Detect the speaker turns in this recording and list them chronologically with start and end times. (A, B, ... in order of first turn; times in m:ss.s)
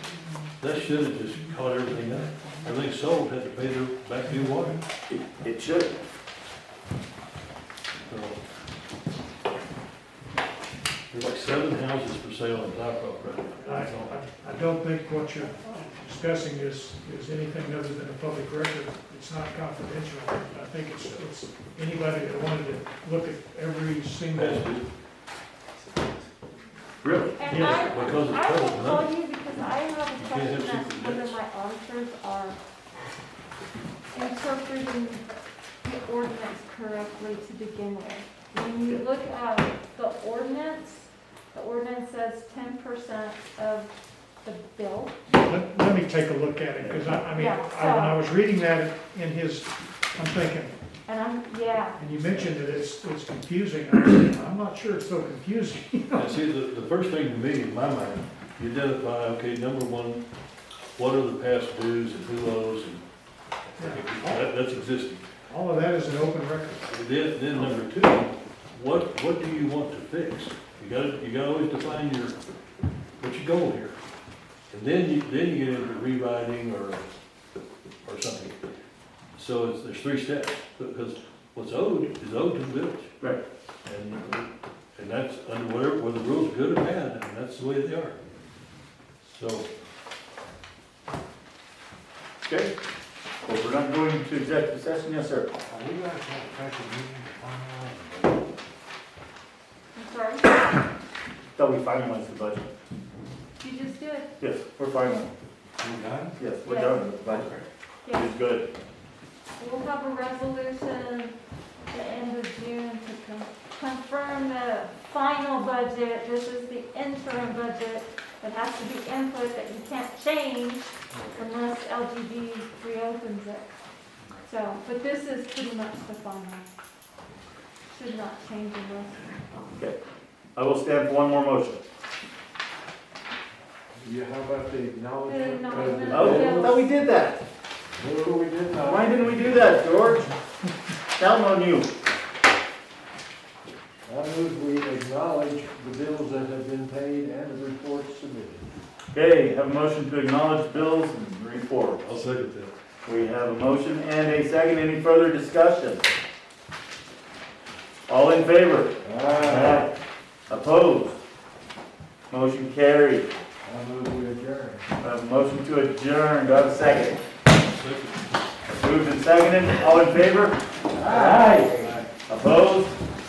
0:00.6-0:04.8 A
0:05.1-0:05.9 B
0:08.1-0:08.4 A
0:11.1-0:14.2 A
0:13.6-0:24.7 C
0:24.3-0:24.8 A
0:27.0-0:27.4 B
0:27.4-0:32.6 D
0:27.4-0:27.8 C
0:27.5-0:29.2 A
0:30.1-0:31.4 A
0:34.1-0:35.2 D
0:35.8-0:45.2 D
0:45.3-0:50.8 C
0:46.8-0:47.2 B
0:47.3-0:48.2 D
0:51.0-0:52.0 D
0:52.0-0:56.4 C
0:52.2-0:52.5 A
0:56.1-1:00.2 A
1:00.9-1:03.0 A
1:03.6-1:05.3 A
1:03.8-1:04.5 C
1:05.5-1:06.9 C
1:06.9-1:12.3 A
1:13.2-1:14.0 A
1:14.7-1:17.0 A
1:18.0-1:18.6 A
1:19.4-1:23.1 A
1:23.8-1:28.2 A
1:29.2-1:29.7 A
1:32.4-1:32.7 B
1:33.4-1:35.5 B
1:35.6-1:38.4 E
1:39.9-1:40.5 D
1:41.6-1:42.7 B
1:43.6-1:44.3 D
1:44.4-1:45.3 B
1:45.8-1:46.4 E
1:46.4-1:47.5 B
1:46.6-1:47.1 D
1:47.3-1:47.6 E
1:48.0-1:48.3 D
1:48.1-1:48.7 B
1:49.6-1:51.4 D
1:51.9-2:03.8 D
2:04.4-2:06.7 D
2:07.9-2:09.2 D
2:10.6-2:11.8 B
2:14.0-2:16.8 E
2:15.2-2:16.9 D
2:16.0-2:17.4 B
2:18.0-2:19.6 E
2:18.8-2:20.3 B
2:21.2-2:21.9 B
2:24.0-2:28.7 E
2:29.1-2:32.0 B
2:32.0-2:32.7 A
2:33.0-2:36.0 B
2:38.1-2:39.9 B
2:39.0-2:39.9 E
2:40.5-2:41.2 B
2:42.3-2:43.3 B
2:43.6-2:44.9 E
2:45.0-2:47.2 B
2:47.6-2:48.6 A
2:48.7-2:53.0 B
2:50.9-2:52.0 E